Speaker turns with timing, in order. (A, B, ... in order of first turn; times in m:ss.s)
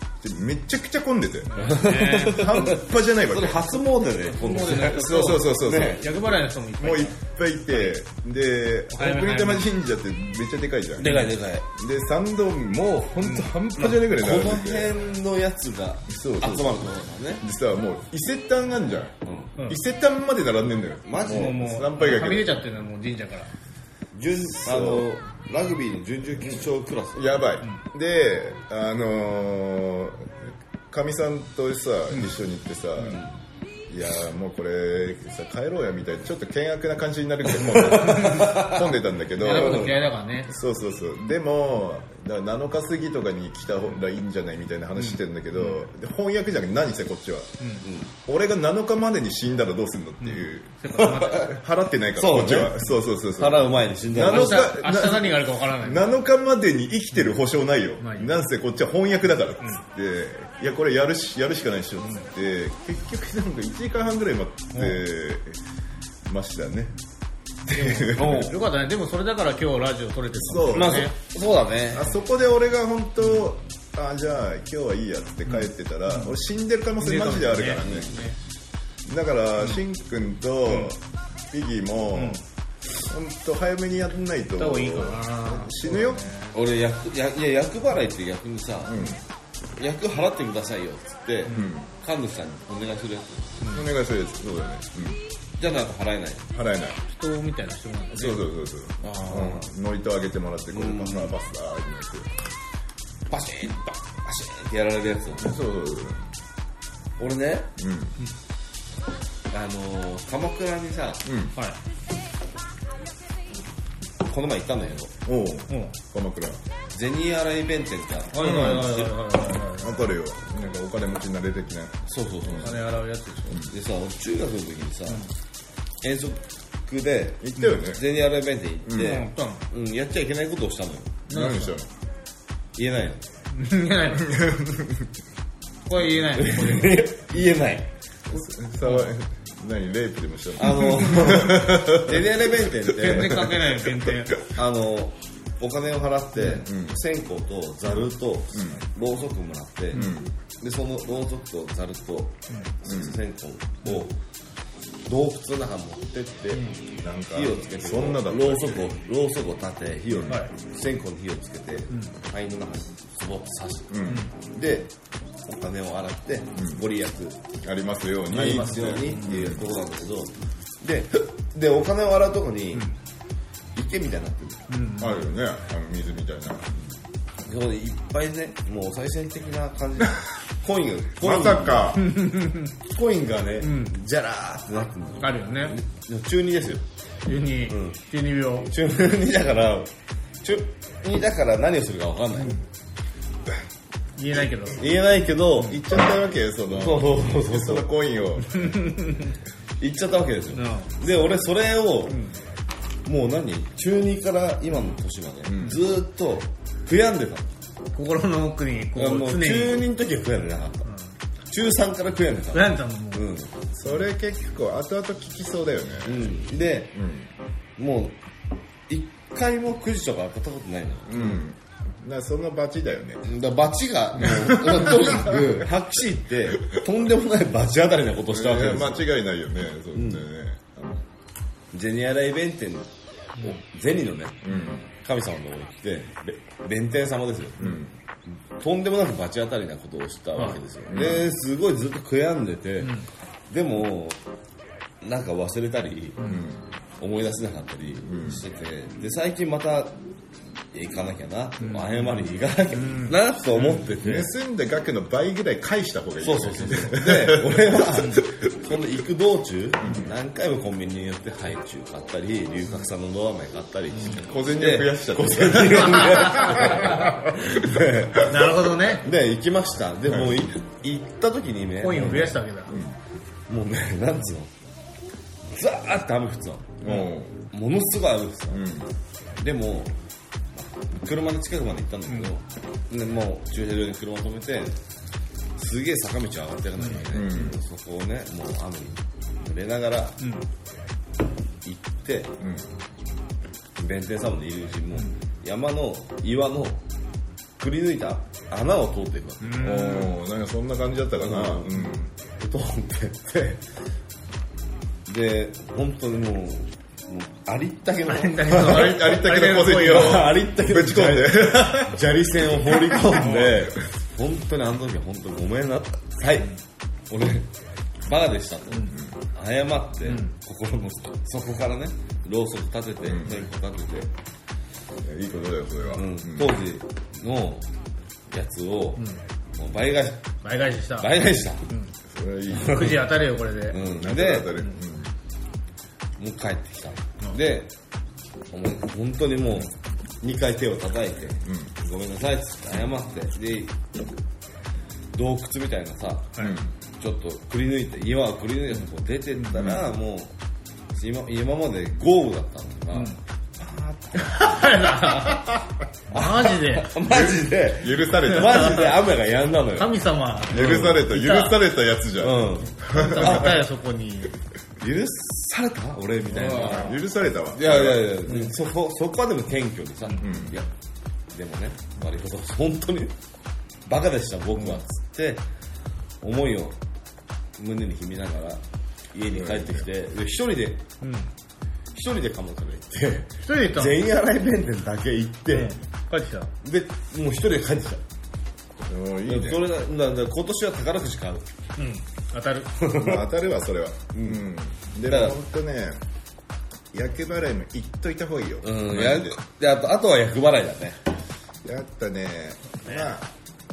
0:00.2-0:03.8 A
0:01.5-0:02.5 B
0:01.6-0:06.1 C
0:04.3-0:08.0 B
0:04.7-0:11.2 A
0:08.9-0:09.7 B
0:11.0-0:11.7 C
0:11.0-0:11.3 B
0:11.7-0:15.0 A
0:13.8-0:17.4 C
0:16.1-0:22.5 A
0:19.3-0:19.5 C
0:21.1-0:21.6 C
0:21.2-0:23.5 B
0:24.1-0:27.4 C
0:24.6-0:25.1 A
0:27.1-0:33.2 A
0:33.9-0:47.6 A
0:37.8-0:38.8 C
0:38.0-0:38.7 B
0:39.4-0:40.5 B
0:39.5-0:40.0 C
0:45.0-0:45.8 B
0:47.8-0:48.1 C
0:48.2-1:05.6 A
0:50.2-0:51.6 B
0:51.0-0:51.5 C
0:52.2-0:54.8 C
0:54.2-0:56.2 B
0:58.0-0:58.4 B
1:04.7-1:05.0 B
1:06.3-1:07.0 A
1:07.7-1:08.5 A
1:07.7-1:11.2 B
1:08.2-1:08.6 C
1:10.3-1:11.1 A
1:10.7-1:12.1 C
1:11.9-1:18.2 A
1:15.5-1:16.4 B
1:17.0-1:18.4 B
1:19.0-1:22.4 A
1:20.7-1:20.9 B
1:22.1-1:22.4 B
1:23.0-1:26.3 A
1:24.6-1:26.6 B
1:26.5-1:29.0 C
1:28.9-1:29.2 A
1:29.8-1:33.6 C
1:31.5-1:31.9 A
1:33.7-1:35.2 A
1:35.6-1:36.5 C
1:36.5-1:37.0 A
1:37.1-1:38.4 B
1:38.1-1:42.3 A
1:39.0-1:39.7 C
1:40.7-1:41.4 C
1:43.3-1:45.6 C
1:45.4-1:46.3 A
1:47.2-1:47.7 C
1:47.8-1:48.2 A
1:49.5-1:51.2 C
1:51.2-1:51.5 A
1:54.2-1:55.1 C
1:55.3-1:56.6 A
1:56.9-1:59.2 C
1:58.3-2:00.1 B
1:58.4-1:59.0 A
1:59.8-2:02.7 A
2:02.1-2:02.9 C
2:02.6-2:03.6 B
2:03.7-2:05.3 C
2:06.0-2:11.2 C
2:07.4-2:08.0 A
2:08.9-2:09.2 A
2:09.0-2:09.6 B
2:11.3-2:11.8 B
2:11.3-2:11.9 A
2:12.8-2:13.3 C
2:13.5-2:14.5 B
2:14.2-2:15.1 A
2:15.9-2:17.1 B
2:16.3-2:17.9 C
2:18.3-2:24.1 A
2:18.8-2:19.1 B
2:20.6-2:23.6 C
2:22.9-2:24.4 B
2:24.5-2:30.1 C
2:26.4-2:27.0 A
2:28.5-2:28.8 A
2:29.9-2:30.3 A
2:30.6-2:34.2 C
2:32.9-2:33.2 A
2:35.0-2:36.8 C
2:37.0-2:38.9 A
2:37.3-2:44.9 C
2:40.1-2:40.4 A
2:43.9-2:44.3 A
2:45.5-2:47.4 C
2:46.6-2:46.8 A
2:47.6-2:49.7 A
2:48.3-2:52.9 C
2:48.9-2:49.2 B
2:53.8-2:54.8 C
2:54.7-2:55.2 B
2:55.0-2:56.7 A
2:57.4-3:02.0 C
3:01.2-3:02.2 A
3:02.0-3:02.7 B
3:02.8-3:06.8 C
3:03.6-3:03.9 B
3:05.2-3:05.8 B
3:07.3-3:08.7 B
3:07.7-3:08.0 C
3:08.6-3:09.9 C
3:10.4-3:12.6 C
3:14.2-3:14.8 B
3:14.8-3:16.0 C
3:15.6-3:19.1 A
3:16.7-3:17.9 C
3:18.6-3:19.3 B
3:19.8-3:22.2 C
3:20.5-3:20.9 B
3:22.1-3:22.4 B
3:23.1-3:27.5 C
3:25.5-3:25.8 A
3:27.9-3:29.8 B
3:29.0-3:30.9 C
3:30.8-3:31.1 B
3:31.5-3:33.6 C
3:32.5-3:33.2 B
3:33.7-3:37.3 A
3:36.1-3:37.0 C
3:37.8-3:38.2 C
3:38.9-3:41.4 C
3:41.1-3:43.3 A
3:43.2-3:49.1 C
3:44.2-3:45.6 A
3:48.3-3:51.0 A
3:50.0-3:50.2 C
3:51.7-3:57.8 C
3:54.4-3:54.9 A
3:57.6-3:57.9 A
3:58.6-4:03.0 C
4:00.9-4:01.3 A
4:02.8-4:03.1 B
4:03.5-4:04.2 C
4:05.0-4:06.4 C
4:06.2-4:06.6 A
4:07.0-4:10.0 C
4:08.1-4:08.4 A
4:10.7-4:14.3 C
4:11.6-4:12.0 B
4:12.7-4:13.7 B
4:14.0-4:18.7 A
4:16.2-4:32.8 C
4:19.8-4:20.1 A
4:24.1-4:27.0 A
4:27.6-4:28.2 A
4:28.2-4:29.0 B
4:30.1-4:30.4 A
4:31.8-4:32.8 B
4:33.5-4:34.5 C
4:35.5-4:38.6 C
4:36.8-4:37.4 A
4:38.5-4:38.9 A
4:39.4-4:39.9 C
4:40.5-4:44.8 C
4:45.6-4:50.2 C
4:47.1-4:47.6 A
4:50.2-4:50.5 B
4:51.6-4:52.4 C
4:52.4-4:52.7 A
4:53.8-4:56.8 C
4:57.6-4:59.8 C
4:59.4-5:00.1 B
4:59.6-5:02.1 A
5:01.2-5:01.7 C
5:02.4-5:03.6 C
5:05.1-5:16.6 C
5:08.1-5:10.2 B
5:08.6-5:12.1 A
5:12.7-5:13.0 A
5:13.2-5:13.5 B
5:17.1-5:17.5 C
5:18.1-5:24.1 C
5:18.9-5:19.2 A
5:20.1-5:20.3 B
5:23.0-5:23.5 A
5:25.0-5:26.6 A
5:26.0-5:27.7 C
5:28.3-5:29.0 C
5:29.6-5:30.3 C
5:30.4-5:31.2 B
5:31.0-5:31.7 C
5:32.1-5:33.0 A
5:32.6-5:33.8 B
5:32.8-5:33.0 C
5:33.7-5:34.5 C
5:33.8-5:35.1 A
5:36.2-5:37.7 C
5:38.5-5:43.8 C
5:41.4-5:41.8 A
5:45.1-5:46.4 C
5:46.4-5:46.7 A
5:47.0-5:50.3 C
5:49.5-5:49.9 A
5:50.9-5:55.4 C
5:52.9-5:53.2 B
5:54.2-5:56.9 B
5:56.1-6:01.1 C
5:57.0-5:59.1 A
5:59.8-6:01.6 B
6:00.5-6:03.6 A
6:02.2-6:03.6 C
6:02.9-6:04.3 B
6:04.8-6:07.0 C
6:06.3-6:06.9 B
6:06.3-6:08.2 A
6:07.5-6:10.7 C
6:10.2-6:10.6 A
6:11.3-6:13.2 C
6:13.9-6:15.4 C
6:16.2-6:16.8 C
6:17.6-6:18.6 C
6:19.1-6:20.8 C
6:19.3-6:19.9 A
6:21.0-6:21.3 B
6:21.9-6:25.7 C
6:23.4-6:24.0 B
6:25.5-6:26.5 B
6:26.6-6:28.0 C
6:28.9-6:29.7 A
6:29.3-6:31.5 C
6:31.8-6:32.7 B
6:32.8-6:33.3 C
6:33.0-6:36.0 A
6:34.2-6:34.5 C
6:35.1-6:35.4 C
6:36.9-6:39.4 A
6:38.6-6:41.0 C
6:41.6-6:43.3 A